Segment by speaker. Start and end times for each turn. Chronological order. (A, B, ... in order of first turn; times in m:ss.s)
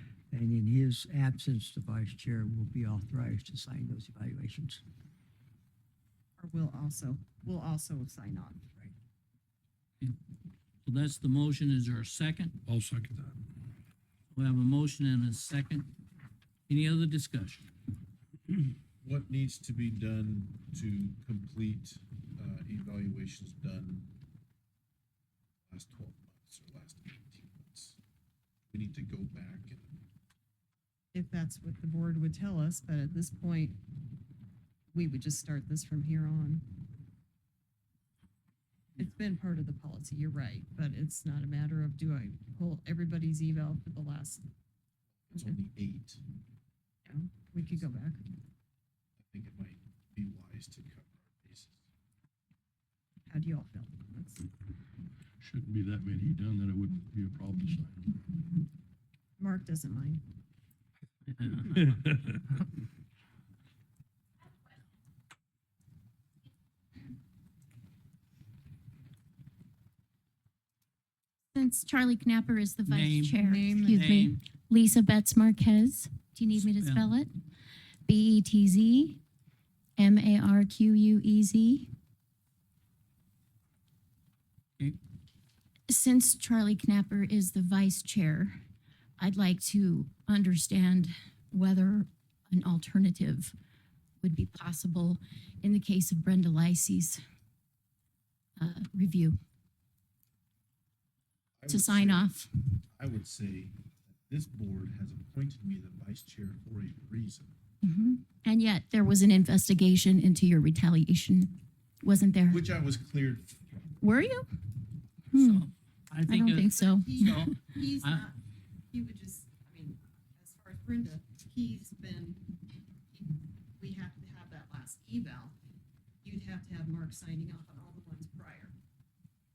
0:00.3-0:04.8 A
0:06.4-0:08.9 B
0:10.8-0:12.6 C
0:12.7-0:13.4 D
0:14.3-0:15.9 C
0:16.7-0:17.7 C
0:19.0-0:24.2 E
0:25.7-0:28.0 E
0:28.7-0:30.0 E
0:31.1-0:33.8 B
0:34.9-0:36.8 B
0:39.0-0:44.5 B
0:45.3-0:46.2 E
0:47.1-0:48.4 B
0:49.2-0:51.8 E
0:53.3-0:54.4 B
0:55.4-0:58.2 D
0:59.4-1:00.2 B
1:01.3-1:01.9 C
1:01.6-1:02.4 D
1:11.5-1:17.3 F
1:12.9-1:14.4 C
1:13.4-1:14.0 B
1:16.5-1:17.1 C
1:18.1-1:19.2 F
1:20.0-1:21.9 F
1:25.9-1:28.6 F
1:29.2-1:33.6 F
1:34.2-1:37.2 F
1:38.6-1:39.4 F
1:41.6-1:42.3 E
1:41.7-1:42.5 F
1:42.9-1:47.6 E
1:47.8-1:52.6 F
1:52.5-1:53.8 E
1:54.0-1:54.5 F
1:55.3-1:55.7 F
1:55.4-1:58.2 C
1:56.3-1:57.8 F
1:56.4-1:58.4 B
1:58.9-2:05.6 B
2:06.2-2:08.8 B